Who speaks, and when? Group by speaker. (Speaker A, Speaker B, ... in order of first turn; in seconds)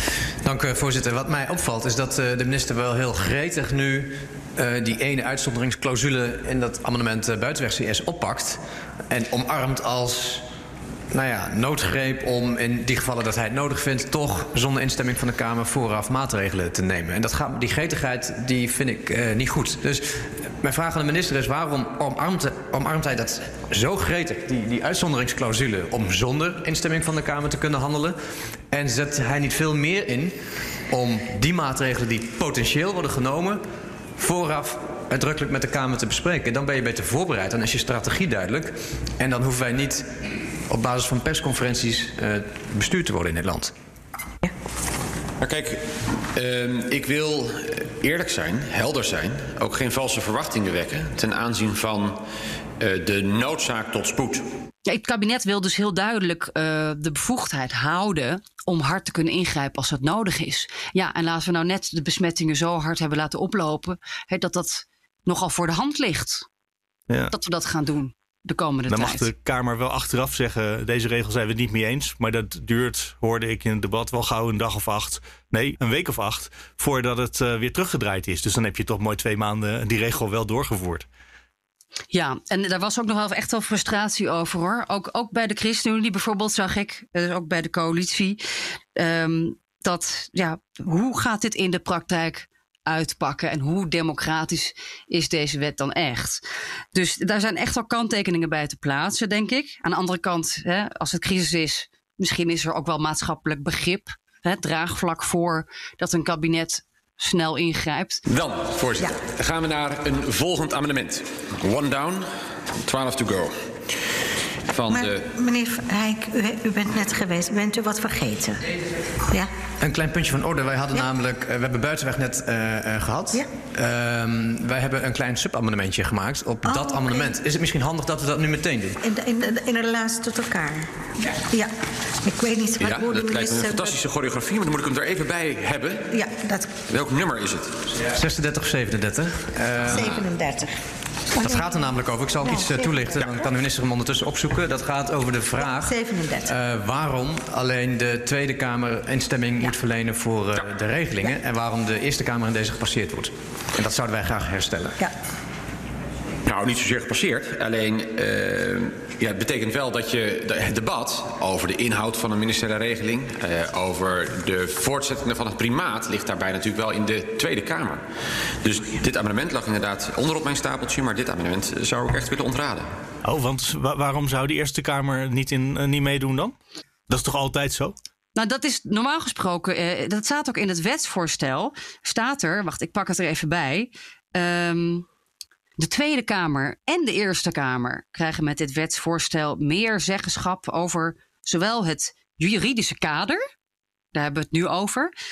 Speaker A: 0.4-10.4, 11.1-28.2, 28.7-30.4, 30.9-33.6, 34.2-40.0, 40.7-43.7, 119.8-129.0, 138.1-140.2, 141.4-155.0
Speaker B: 45.4-52.2, 52.8-54.4, 108.3-112.3, 112.8-113.5, 114.7-115.3, 132.8-136.1, 136.9-137.9, 156.4-168.0, 168.6-172.9
Speaker C: 54.9-66.5, 67.3-69.3, 82.1-88.4, 89.0-96.4, 96.9-108.2, 178.3-185.1, 185.8-193.4, 194.1-195.1
Speaker D: 67.1-67.3, 68.9-81.1, 173.2-176.6, 177.1-177.9
Speaker E: 114.9-118.6, 126.7-127.3, 129.0-130.9, 132.2-134.0, 136.1-136.7, 139.8-140.7, 141.3-141.7, 142.4-143.4, 145.6-146.5